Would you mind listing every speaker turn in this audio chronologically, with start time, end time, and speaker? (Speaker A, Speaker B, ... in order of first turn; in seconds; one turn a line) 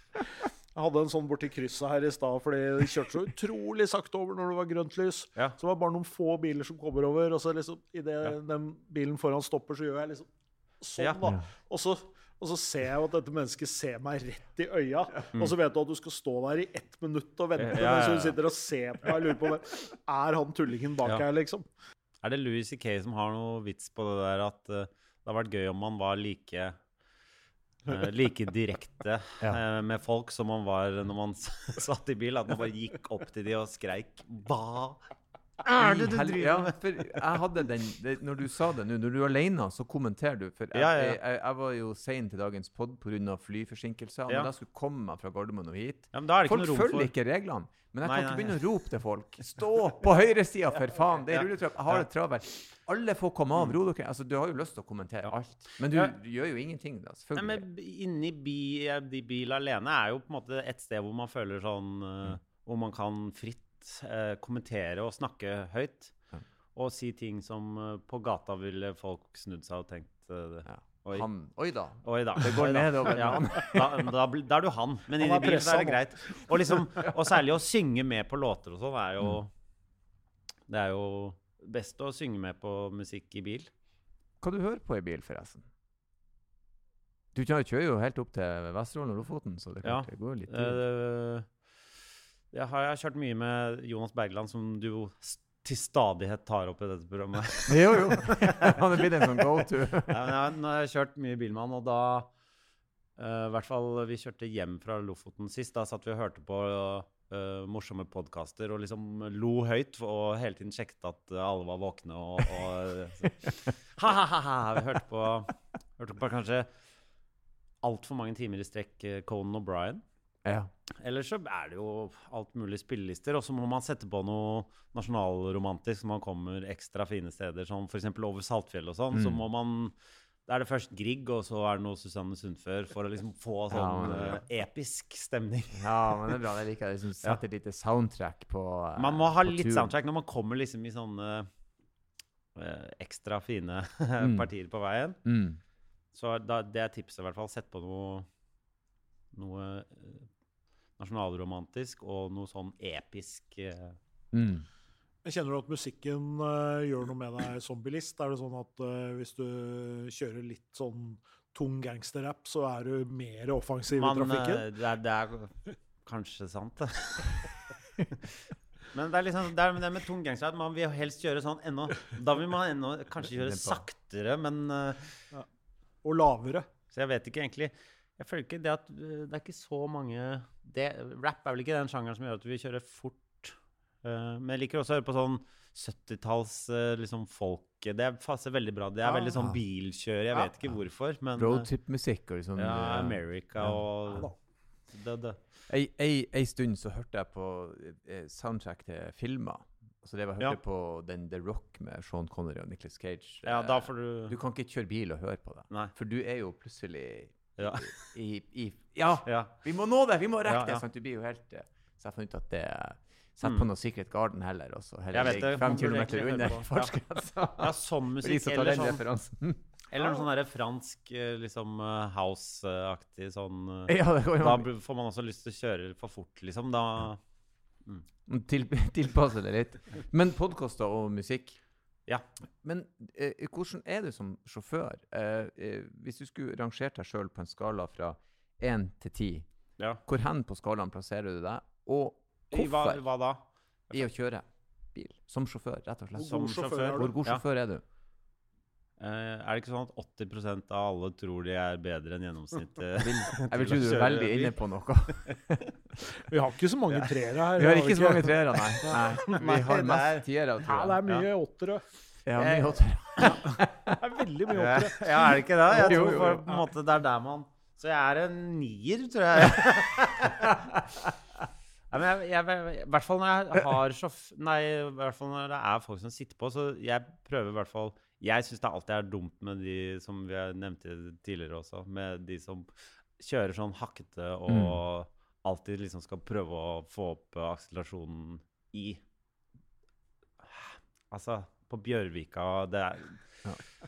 Speaker A: 0.7-10.3
Speaker A: 10.8-21.6
Speaker B: 17.6-18.4
Speaker B: 22.2-26.8
Speaker B: 27.9-35.0
Speaker B: 35.6-37.2
Speaker C: 35.8-57.6
Speaker B: 40.7-41.2
Speaker B: 46.1-47.1
Speaker B: 48.0-48.6
Speaker B: 51.3-52.1
Speaker B: 57.3-66.1
Speaker B: 66.7-71.3
Speaker C: 70.7-74.1
Speaker B: 72.0-79.5
Speaker A: 75.2-76.9
Speaker B: 80.7-83.7
Speaker C: 84.4-85.7
Speaker C: 87.3-90.8
Speaker B: 89.8-91.5
Speaker B: 92.5-99.5
Speaker C: 97.7-100.3
Speaker B: 100.1-102.3
Speaker B: 103.2-116.7
Speaker B: 117.8-120.0
Speaker C: 120.4-120.7
Speaker B: 120.9-129.9
Speaker C: 129.1-129.4
Speaker B: 130.5-136.3
Speaker C: 133.7-134.4
Speaker C: 135.7-139.9
Speaker B: 139.0-141.5
Speaker B: 142.5-145.2
Speaker C: 144.2-144.5
Speaker C: 145.2-145.6
Speaker B: 146.1-148.3
Speaker B: 149.3-150.3
Speaker B: 151.0-154.0
Speaker C: 154.3-154.7
Speaker A: 155.2-164.7
Speaker B: 163.9-167.4
Speaker B: 168.1-168.4
Speaker B: 168.9-175.2
Speaker C: 173.3-173.8
Speaker A: 176.0-176.7
Speaker B: 176.9-191.7
Speaker A: 189.0-189.4
Speaker C: 189.3-189.6
Speaker C: 191.3-194.3
Speaker B: 192.6-194.3
Speaker B: 194.9-195.4
Speaker C: 195.7-219.6
Speaker B: 203.4-204.3
Speaker B: 207.6-207.9
Speaker B: 209.2-209.5
Speaker B: 210.4-210.8
Speaker B: 213.4-213.7
Speaker B: 215.1-216.9
Speaker B: 217.6-219.0
Speaker B: 219.9-227.2
Speaker C: 223.9-224.7
Speaker C: 228.2-231.6
Speaker C: 232.6-239.5
Speaker C: 240.0-243.1
Speaker B: 242.5-244.1
Speaker C: 243.9-247.8
Speaker A: 246.2-247.2
Speaker B: 246.2-247.4
Speaker B: 249.0-254.6
Speaker C: 253.0-256.0
Speaker A: 256.1-259.4
Speaker C: 257.6-261.0
Speaker B: 259.1-260.3
Speaker A: 260.6-261.8
Speaker C: 262.2-264.0
Speaker B: 262.4-263.4
Speaker A: 264.0-266.7
Speaker B: 264.5-270.5
Speaker C: 265.7-266.4
Speaker C: 270.4-271.1
Speaker B: 271.9-289.0
Speaker C: 284.5-284.8
Speaker B: 290.4-293.4